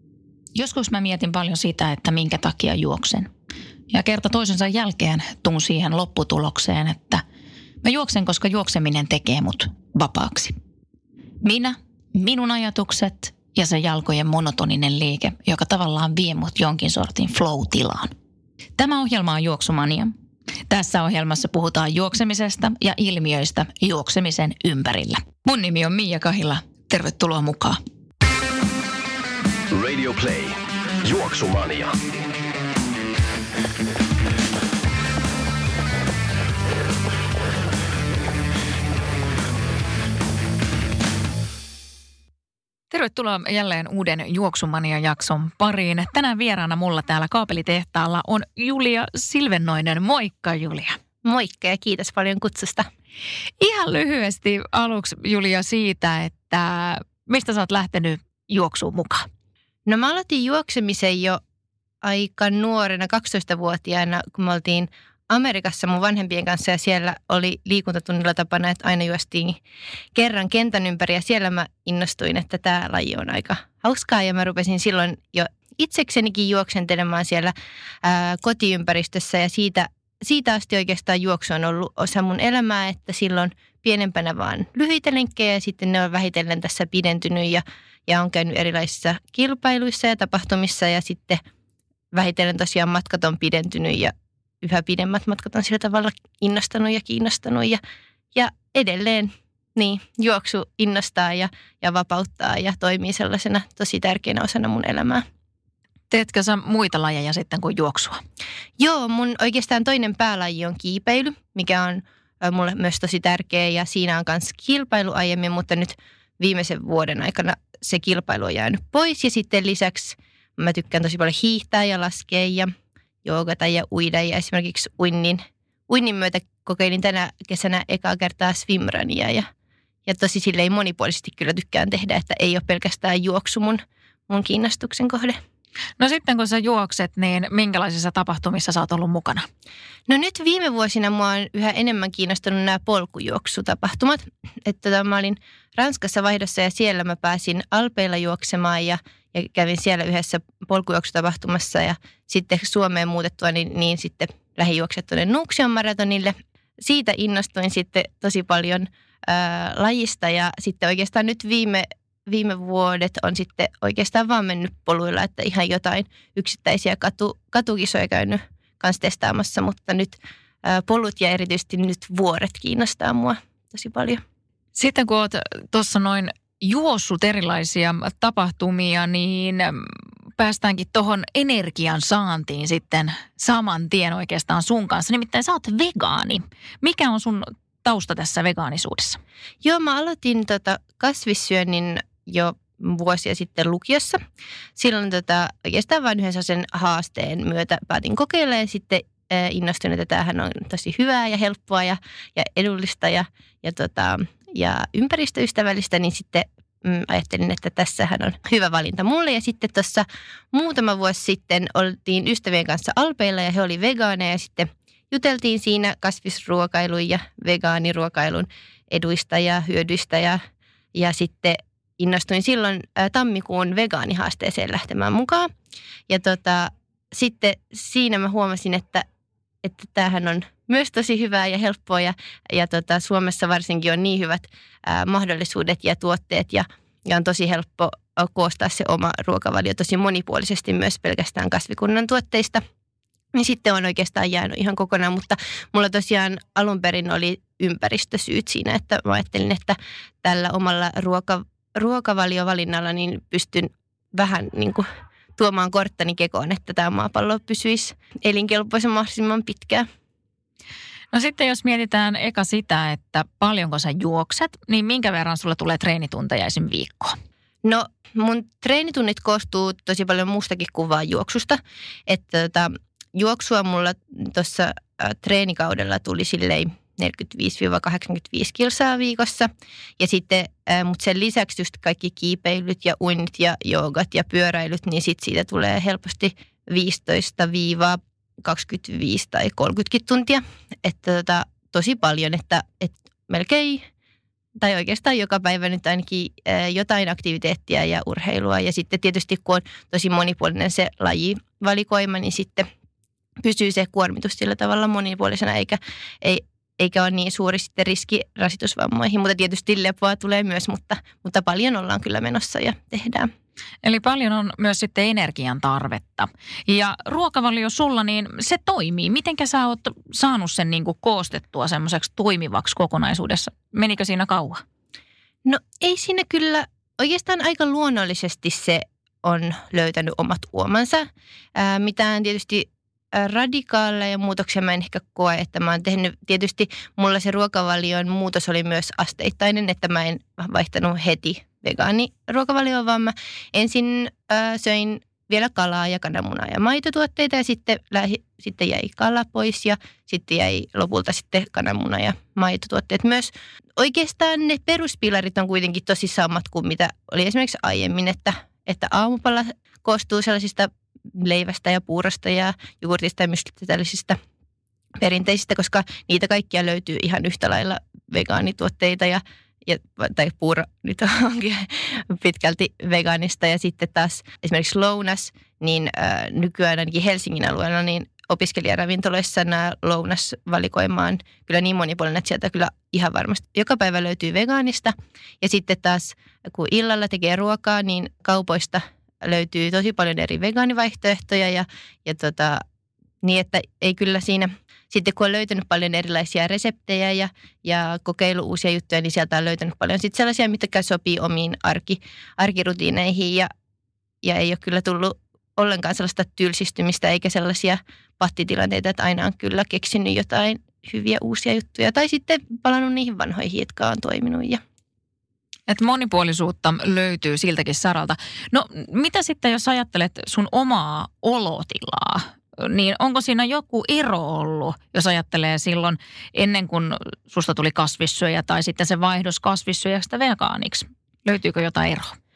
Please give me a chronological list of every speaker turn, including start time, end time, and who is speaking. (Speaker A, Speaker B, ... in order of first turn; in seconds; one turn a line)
Speaker A: 0.5-3.3
Speaker A: 3.9-7.2
Speaker A: 7.8-10.6
Speaker A: 11.4-18.1
Speaker A: 18.8-20.1
Speaker A: 20.7-27.8
Speaker B: 29.7-32.0
Speaker A: 42.9-51.0
Speaker C: 51.2-52.9
Speaker A: 53.6-59.3
Speaker C: 59.9-61.4
Speaker C: 62.0-69.6
Speaker C: 70.1-91.4
Speaker C: 92.1-97.8
Speaker C: 98.3-105.2
Speaker A: 106.1-108.2
Speaker C: 108.8-122.7
Speaker C: 123.2-129.5
Speaker C: 130.1-135.4
Speaker A: 136.0-139.5
Speaker C: 140.1-174.2
Speaker A: 174.7-189.2
Speaker C: 189.6-194.2
Speaker C: 194.8-220.4
Speaker C: 220.9-225.5
Speaker C: 226.1-229.1
Speaker C: 229.6-242.6
Speaker C: 243.3-254.8
Speaker C: 255.4-259.9
Speaker A: 261.1-267.1
Speaker C: 267.6-293.9
Speaker C: 294.6-302.7
Speaker C: 303.4-313.3
Speaker A: 313.8-324.6
Speaker C: 325.4-364.2
Speaker C: 365.0-392.6
Speaker C: 393.2-403.5
Speaker C: 404.2-414.6
Speaker A: 415.7-432.2